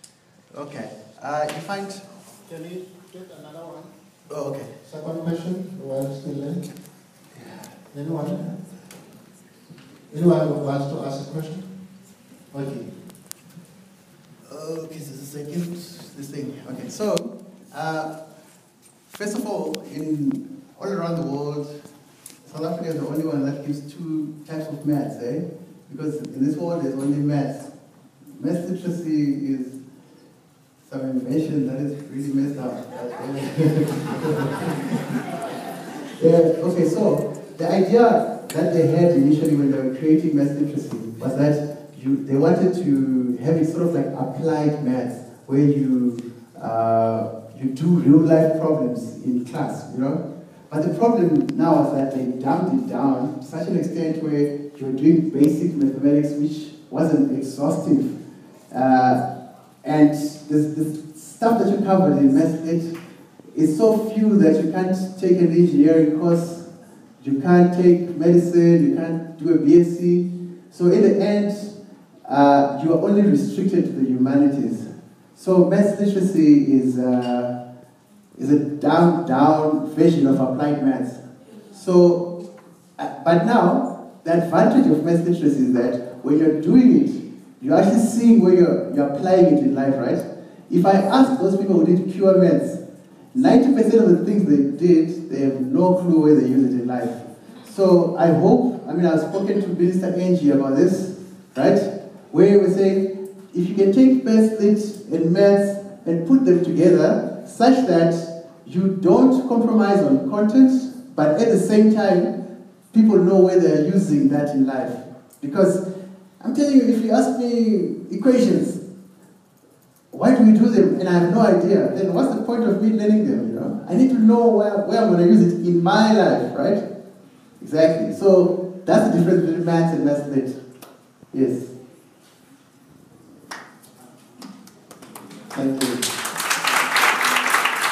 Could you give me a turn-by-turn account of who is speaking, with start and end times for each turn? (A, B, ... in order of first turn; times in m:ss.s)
0:00.5-0:02.0 A
0:02.4-0:03.9 B
0:04.3-0:04.7 A
0:04.8-0:06.6 B
0:07.4-0:07.7 A
0:07.9-0:08.6 B
0:10.1-0:11.6 B
0:12.5-0:12.9 B
0:14.5-0:18.1 A
0:19.1-0:21.7 A
0:22.4-0:27.7 A
0:28.4-0:29.8 A
0:30.8-0:35.2 A
0:36.2-0:58.2 A
0:58.7-0:59.2 A
0:59.8-1:03.0 A
1:03.5-1:06.7 A
1:07.2-1:17.5 A
1:18.4-1:21.2 A
1:21.7-1:22.3 A
1:23.0-1:32.8 A
1:33.3-1:52.3 A
1:52.9-1:55.8 A
1:56.4-1:58.8 A
2:00.1-2:06.8 A
2:07.6-2:10.6 A
2:11.3-2:11.7 A
2:15.5-2:16.0 B